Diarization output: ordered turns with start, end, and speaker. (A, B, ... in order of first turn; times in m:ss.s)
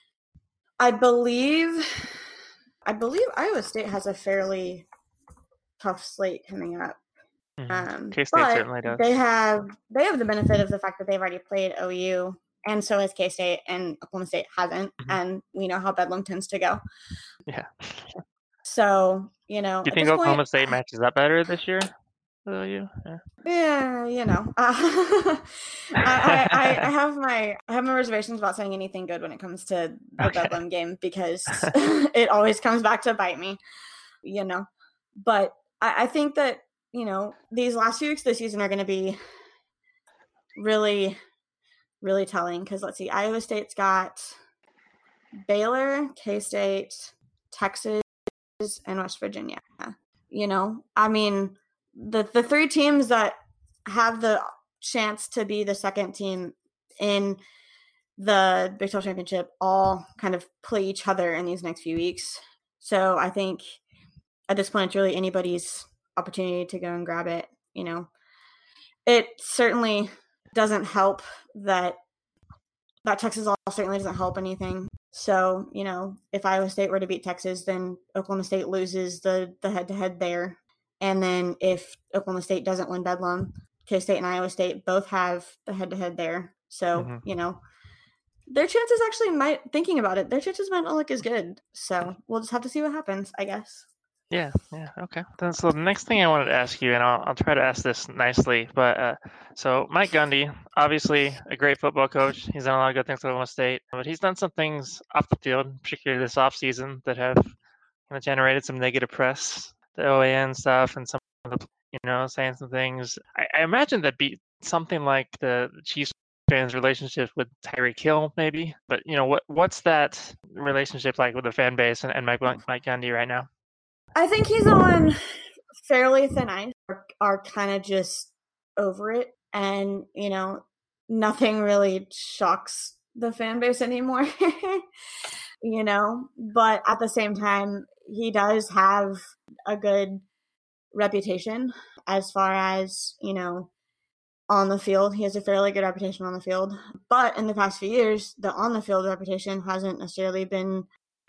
0:00.8-0:02.2 A
0:02.8-0:04.9 A
0:05.8-0:07.0 A
0:07.6-0:09.0 B
0:07.7-0:16.8 A
0:17.5-0:18.2 B
0:18.7-0:20.5 A
0:19.8-0:21.9 B
0:22.5-0:23.2 B
0:23.4-0:33.6 A
0:26.2-0:26.9 B
0:30.2-0:30.5 B
0:34.2-0:34.7 A
0:35.2-0:39.2 A
0:40.6-0:41.2 A
0:42.0-0:44.4 A
0:45.4-0:48.1 A
0:48.6-0:57.4 A
0:58.2-1:03.8 A
1:04.5-1:08.1 A
1:09.1-1:12.0 A
1:13.0-1:27.6 A
1:26.9-1:27.2 B
1:28.5-1:33.8 A
1:34.3-1:47.5 B
1:48.1-2:03.5 B
2:04.2-2:05.2 A
2:05.9-2:14.8 A
2:15.6-2:20.2 A
2:20.9-2:23.7 A
2:24.5-2:30.9 A